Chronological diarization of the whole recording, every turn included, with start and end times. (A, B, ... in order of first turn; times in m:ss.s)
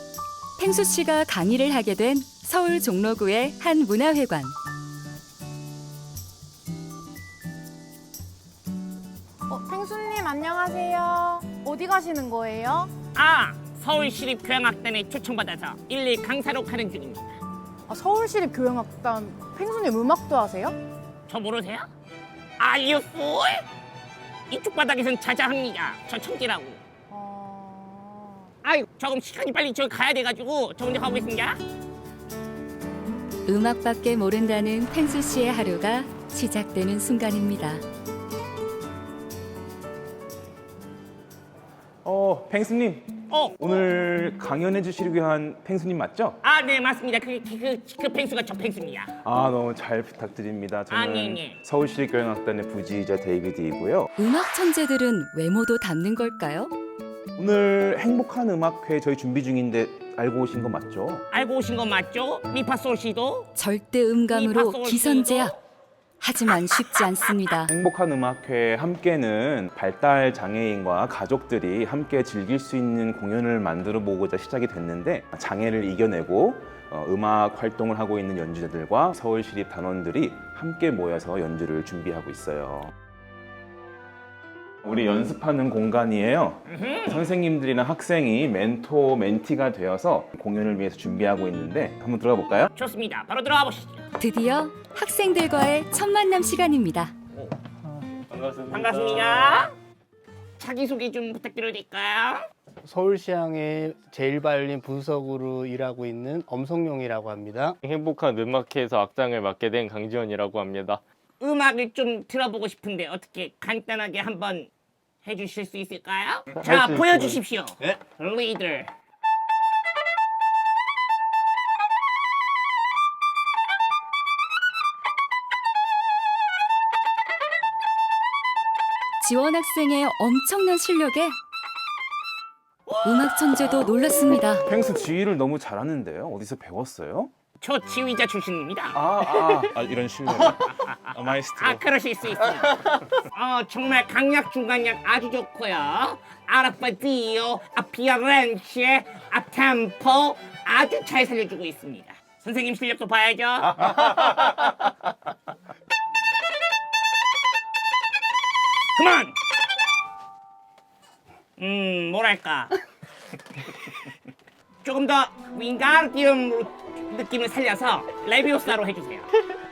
0:00.6-0:04.5 A
0:09.5-0:12.9 B
0:13.1-0:17.4 C
0:17.9-0:20.8 B
0:21.3-0:21.9 C
0:22.6-0:23.6 C
0:24.5-0:26.8 C
0:27.1-0:28.5 B
0:28.6-0:31.6 C
0:33.4-0:37.8 A
0:42.0-0:46.4 D
0:43.3-0:43.6 C
0:46.4-0:49.1 C
0:49.2-0:54.1 D
0:50.9-0:51.6 C
0:54.2-0:56.7 A
0:57.4-1:01.2 D
1:01.3-1:03.5 C
1:03.5-1:05.5 A
1:04.3-1:05.5 C
1:06.2-1:07.7 A
1:07.7-1:22.9 D
1:24.8-1:32.7 D
1:26.7-1:27.2 C
1:32.7-1:34.0 C
1:34.2-1:37.1 A
1:38.7-1:39.7 C
1:40.6-1:42.4 C
1:42.8-1:47.8 E
1:47.8-1:51.0 F
1:51.4-1:54.7 C
1:55.2-1:58.9 C
2:09.2-2:11.3 A
2:12.9-2:13.6 C
2:13.0-2:14.6 A
2:14.7-2:17.3 D
2:17.6-2:19.0 C
2:18.9-2:21.8 D
2:20.3-2:22.7 C
2:23.3-2:34.6 C
2:39.0-2:39.3 C
2:41.6-2:42.7 C
2:44.8-2:49.3 C